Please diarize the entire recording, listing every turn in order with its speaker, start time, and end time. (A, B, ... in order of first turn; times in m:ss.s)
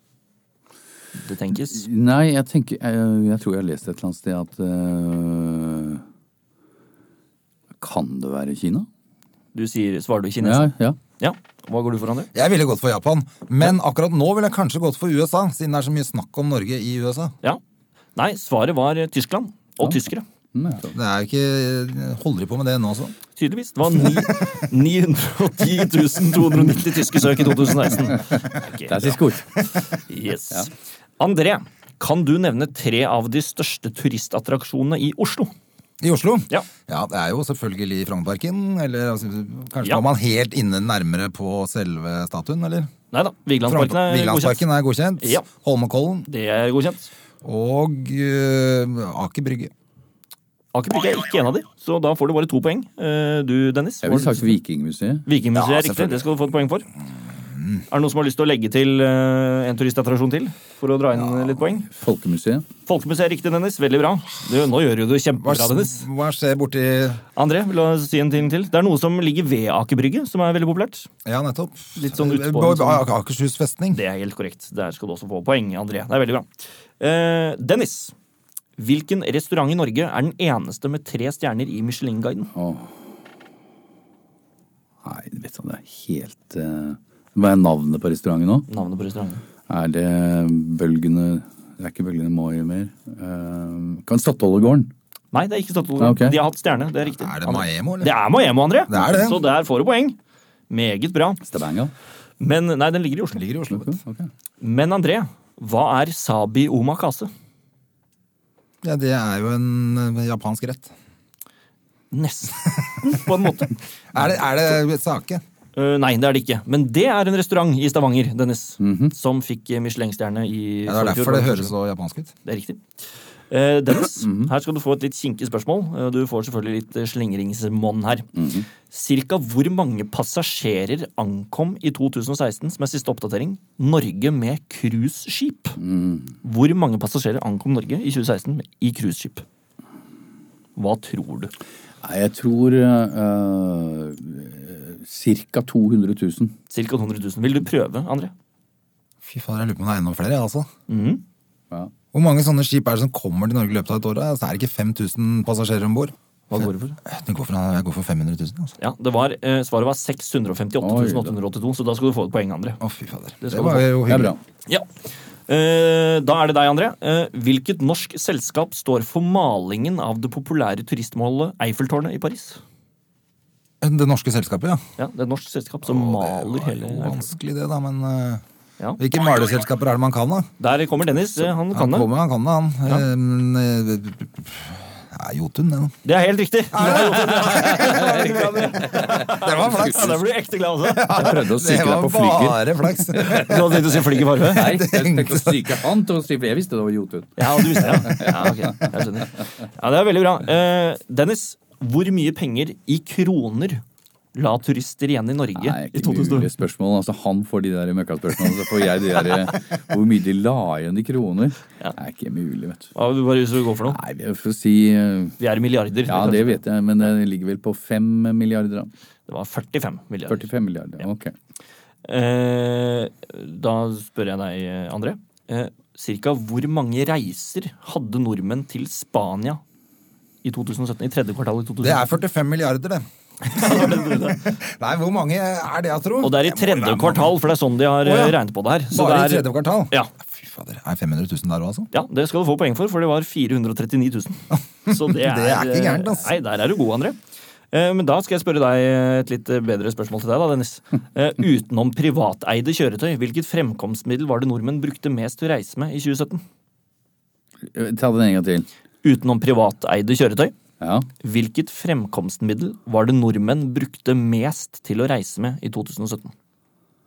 0:01.2-0:01.9 A
0:01.5-0:06.0 B
0:07.8-0:08.9 B
0:09.5-0:12.3 A
0:10.4-0:11.0 B
0:12.3-0:17.3 C
0:18.2-0:20.2 A
0:20.5-0:21.0 B
0:20.9-0:23.1 C
0:23.4-0:29.2 A
0:28.8-0:29.5 B
0:30.1-0:35.5 A
0:36.0-0:42.9 C
0:43.1-0:44.6 A
0:43.7-0:46.3 C
0:45.2-0:45.5 A
0:46.3-0:47.1 A
0:47.4-0:49.7 C
0:50.7-0:54.6 A
0:54.0-0:55.2 B
0:55.2-0:56.9 A
0:55.5-0:56.3 C
0:57.6-0:57.8 C
0:57.9-1:01.9 A
1:01.9-1:02.6 B
1:02.9-1:06.0 A
1:05.4-1:07.2 C
1:07.4-1:11.1 A
1:11.2-1:14.0 C
1:12.0-1:13.0 A
1:13.9-1:16.5 A
1:17.0-1:18.1 A
1:18.8-1:22.5 A
1:22.5-1:22.9 B
1:25.0-1:28.7 B
1:28.7-1:29.4 A
1:29.7-1:34.9 B
1:35.3-1:40.2 A
1:36.0-1:36.4 B
1:37.1-1:38.2 C
1:38.9-1:39.4 C
1:40.7-1:41.4 A
1:41.4-1:41.9 B
1:42.4-1:43.4 A
1:43.3-1:44.0 C
1:43.7-1:44.3 B
1:44.6-1:47.3 A
1:48.8-1:50.9 C
1:52.1-1:53.8 A
1:54.1-1:55.4 C
1:55.8-2:01.7 A
1:58.8-1:59.1 B
2:00.9-2:02.3 C
2:02.4-2:02.8 A
2:03.5-2:08.3 A
2:04.2-2:04.5 B
2:08.3-2:08.7 B
2:08.9-2:15.8 A
2:15.8-2:16.3 B
2:16.4-2:19.4 A
2:20.8-2:21.5 A
2:22.0-2:26.5 B
2:26.7-2:28.3 A
2:29.2-2:30.7 C
2:30.9-2:31.2 A
2:32.1-2:36.1 C
2:36.5-2:37.0 A
2:37.0-2:38.7 C
2:38.8-2:42.8 A
2:40.8-2:41.4 B
2:42.8-2:44.3 C
2:43.4-2:43.9 A
2:44.1-2:44.4 B
2:45.5-2:52.6 A
2:53.8-2:54.8 C
2:55.0-2:57.3 A
2:55.8-2:58.4 C
2:59.0-3:00.5 C
3:00.6-3:02.1 A
3:01.4-3:05.9 C
3:06.0-3:11.4 A
3:06.7-3:08.0 C
3:07.2-3:10.1 B
3:09.1-3:10.2 C
3:11.0-3:13.6 C
3:11.0-3:13.7 B
3:13.2-3:14.8 A
3:14.4-3:18.9 B
3:14.6-3:15.8 C
3:17.4-3:23.8 A
3:24.3-3:26.5 A
3:25.6-3:32.9 B
3:32.9-3:34.0 A
3:33.9-3:35.4 B
3:35.4-3:36.6 A
3:36.0-3:38.9 B
3:39.3-3:40.5 A
3:40.3-3:41.3 B
3:42.0-3:49.6 A
3:50.4-3:52.0 A
3:51.8-3:57.3 C
3:53.4-3:54.6 A
3:56.2-4:00.1 A
3:58.0-3:58.4 C
3:58.9-4:01.9 C
4:01.9-4:07.2 A
4:04.9-4:06.3 C
4:07.7-4:16.4 A
4:17.6-4:18.7 B
4:19.0-4:20.5 A
4:20.8-4:21.1 B
4:21.2-4:26.3 A